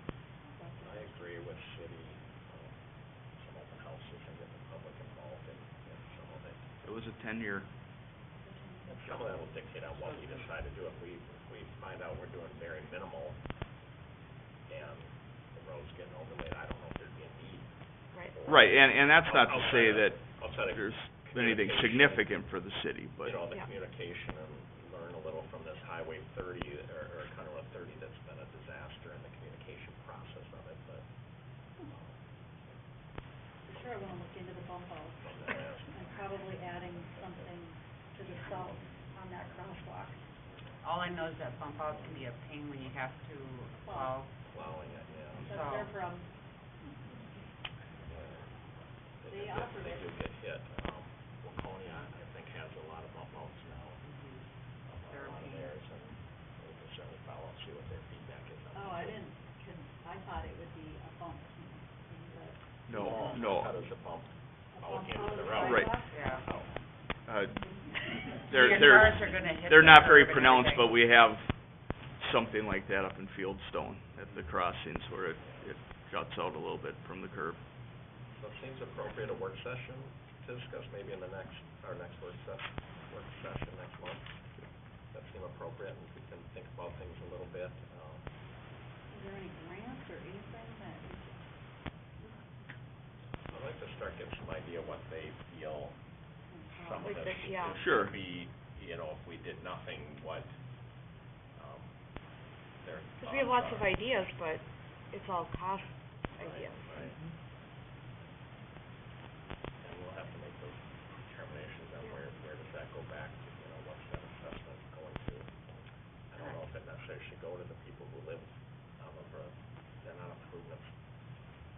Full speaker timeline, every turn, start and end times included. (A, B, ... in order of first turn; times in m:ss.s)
0:00.4-0:01.3 A
0:00.8-0:06.6 B
0:06.8-0:07.7 C
0:08.4-0:09.5 A
0:08.9-0:13.4 B
0:09.9-0:10.6 D
0:14.7-0:22.4 B
0:18.5-0:23.4 C
0:23.2-0:32.9 B
0:33.6-0:40.3 A
0:33.7-0:34.2 B
0:35.2-0:37.6 B
0:38.6-0:38.9 B
0:40.4-0:40.7 B
0:40.8-0:44.4 D
0:43.7-0:44.3 A
0:44.4-0:45.6 B
0:45.4-0:47.4 A
0:45.4-0:45.9 D
0:48.1-0:54.1 B
0:49.2-0:50.2 A
0:54.0-0:55.8 D
0:54.8-0:59.3 B
0:58.7-1:03.5 A
1:02.9-1:03.8 C
1:02.9-1:06.7 B
1:04.7-1:07.0 A
1:05.6-1:06.0 C
1:06.1-1:06.5 D
1:07.2-1:17.6 C
1:07.6-1:08.6 A
1:08.5-1:11.0 D
1:15.4-1:15.7 B
1:18.3-1:24.4 B
1:25.1-1:28.2 B
1:29.1-1:31.5 A
1:32.2-1:32.5 A
1:33.5-1:36.0 B
1:36.5-1:37.3 A
1:36.8-1:42.0 B
1:37.0-1:37.8 E
1:37.7-1:38.2 C
1:42.8-1:43.9 B
1:43.2-1:47.2 E
1:46.3-1:47.2 B
1:49.8-2:00.9 B